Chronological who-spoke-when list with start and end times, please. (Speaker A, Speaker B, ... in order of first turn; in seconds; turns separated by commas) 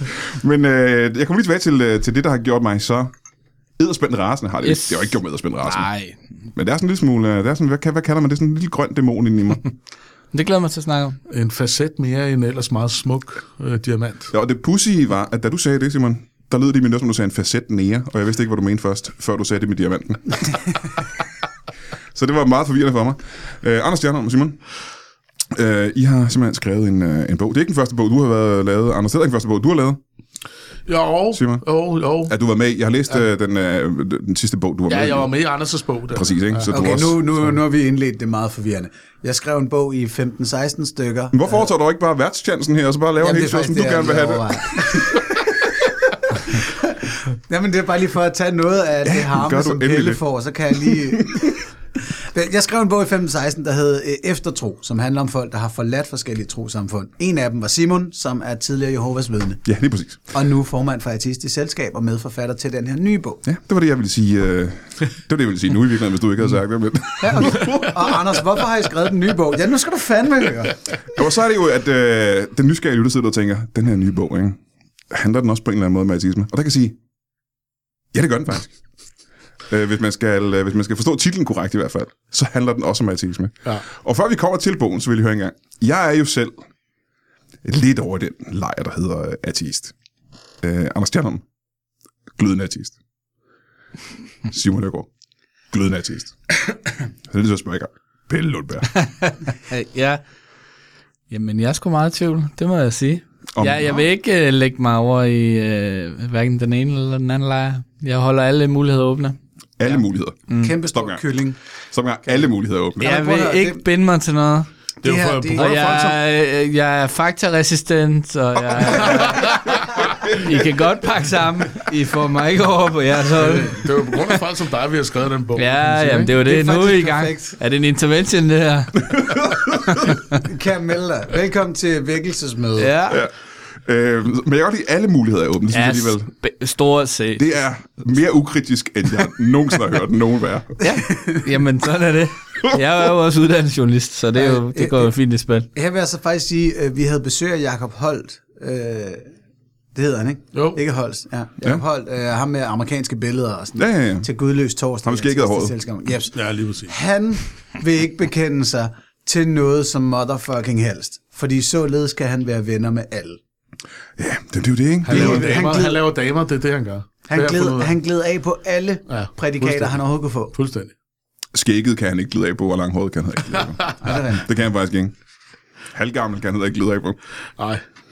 Speaker A: 0.2-3.1, Speaker A: 3.8-5.9, Speaker B: 4.6-5.1, Speaker B: 5.6-6.2, Speaker A: 6.5-9.7, Speaker B: 10.3-11.2, Speaker C: 11.3-14.3, Speaker A: 14.3-20.6, Speaker A: 22.1-24.6, Speaker A: 25.5-30.0, Speaker C: 30.9-32.3, Speaker A: 31.3-31.6, Speaker A: 32.3-35.3, Speaker C: 34.9-36.9, Speaker A: 36.1-37.2, Speaker D: 36.7-41.7, Speaker A: 41.3-45.0, Speaker D: 43.2-59.6, Speaker A: 49.0-50.2, Speaker A: 59.6-60.3, Speaker D: 60.3-63.4, Speaker A: 63.4-68.2, Speaker D: 67.2-70.8, Speaker A: 71.1-74.6, Speaker A: 75.1-77.0, Speaker A: 78.1-78.7, Speaker A: 79.7-86.6, Speaker A: 87.6-89.9, Speaker A: 90.6-91.4, Speaker A: 92.4-92.9, Speaker A: 94.5-95.1, Speaker A: 95.7-96.4, Speaker A: 97.3-99.0, Speaker B: 99.1-100.2, Speaker B: 101.3-109.4, Speaker A: 103.5-104.0, Speaker A: 109.8-111.2, Speaker B: 110.5-110.8, Speaker D: 110.5-111.6, Speaker A: 111.9-113.1, Speaker D: 112.2-113.8, Speaker B: 113.0-114.7, Speaker D: 115.0-115.8, Speaker C: 115.0-115.8, Speaker B: 115.5-124.4, Speaker A: 115.6-116.2, Speaker C: 119.0-119.8, Speaker A: 120.0-120.5, Speaker C: 123.3-126.3, Speaker B: 125.5-130.2, Speaker D: 126.4-127.6, Speaker A: 129.1-130.2, Speaker D: 130.3-132.9, Speaker B: 132.8-133.2, Speaker A: 133.8-136.3, Speaker B: 135.7-137.5, Speaker A: 137.4-140.7, Speaker D: 140.8-141.5, Speaker B: 141.4-145.7, Speaker D: 144.3-145.1, Speaker D: 145.7-149.3, Speaker D: 149.9-163.4, Speaker C: 150.5-150.8, Speaker A: 153.8-154.3, Speaker A: 155.0-155.7, Speaker C: 156.3-156.9, Speaker A: 164.2-165.5, Speaker C: 165.0-167.9, Speaker D: 165.1-166.1, Speaker D: 167.3-170.5, Speaker C: 169.1-170.9, Speaker A: 171.5-175.1, Speaker D: 174.0-174.5, Speaker A: 175.9-177.2